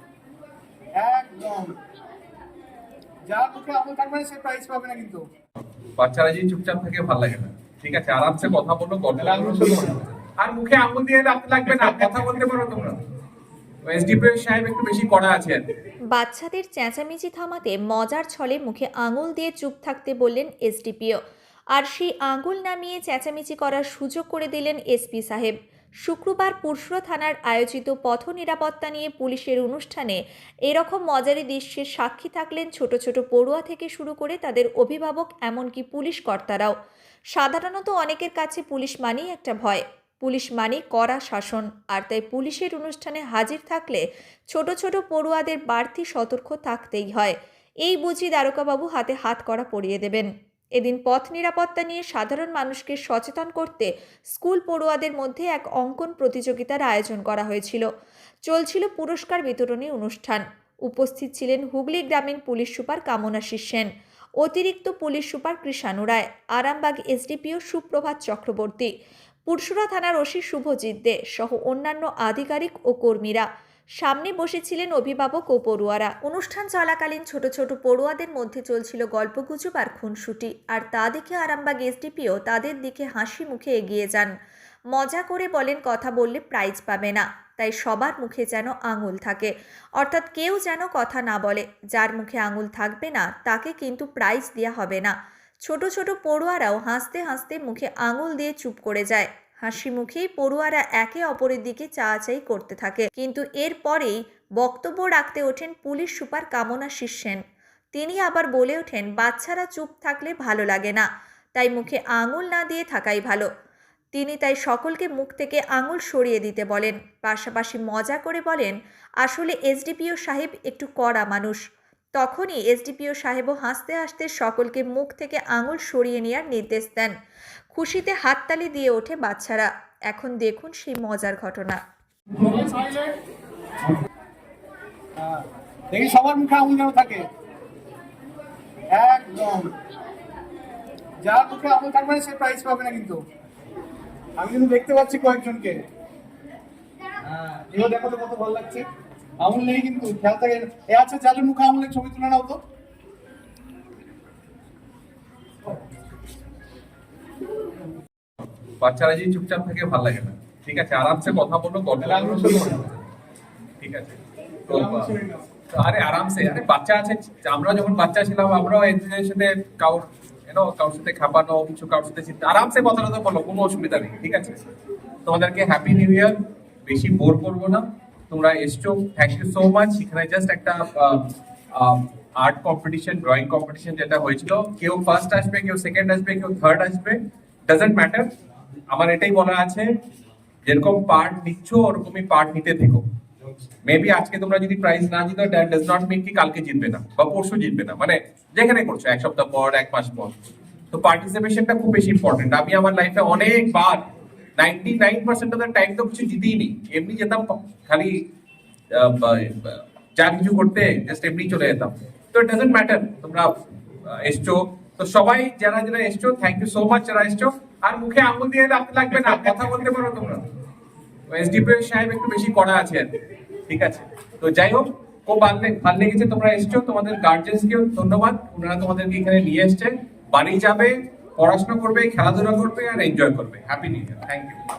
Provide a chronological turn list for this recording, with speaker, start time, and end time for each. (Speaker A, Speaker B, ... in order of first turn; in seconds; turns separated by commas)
Speaker A: 1.0-1.7, Speaker A: 3.3-5.2, Speaker B: 6.0-13.0, Speaker A: 9.2-10.0, Speaker A: 11.7-12.1, Speaker B: 13.8-15.6, Speaker C: 16.1-21.2, Speaker C: 21.7-25.5, Speaker C: 26.0-36.7, Speaker C: 37.3-57.9, Speaker C: 58.5-63.9, Speaker C: 64.4-68.9, Speaker C: 69.5-73.5, Speaker C: 74.0-84.3, Speaker C: 84.9-95.1, Speaker C: 95.6-107.4, Speaker C: 107.9-113.5, Speaker C: 114.1-121.6, Speaker C: 122.2-127.1, Speaker C: 127.7-131.8, Speaker A: 132.4-133.1, Speaker A: 135.2-137.2, Speaker A: 138.9-139.7, Speaker A: 141.2-143.2, Speaker A: 144.4-145.8, Speaker A: 147.3-148.8, Speaker A: 149.4-152.6, Speaker B: 158.8-163.1, Speaker A: 162.0-162.8, Speaker B: 163.8-165.1, Speaker A: 164.7-165.4, Speaker B: 165.7-174.6, Speaker B: 175.2-176.3, Speaker B: 176.8-188.3, Speaker B: 188.9-189.9, Speaker B: 190.7-193.0, Speaker B: 193.8-200.4, Speaker B: 200.9-204.0, Speaker B: 204.6-208.1, Speaker B: 208.9-213.5, Speaker B: 214.0-220.4, Speaker A: 219.2-219.5, Speaker B: 221.3-223.1, Speaker B: 223.7-234.6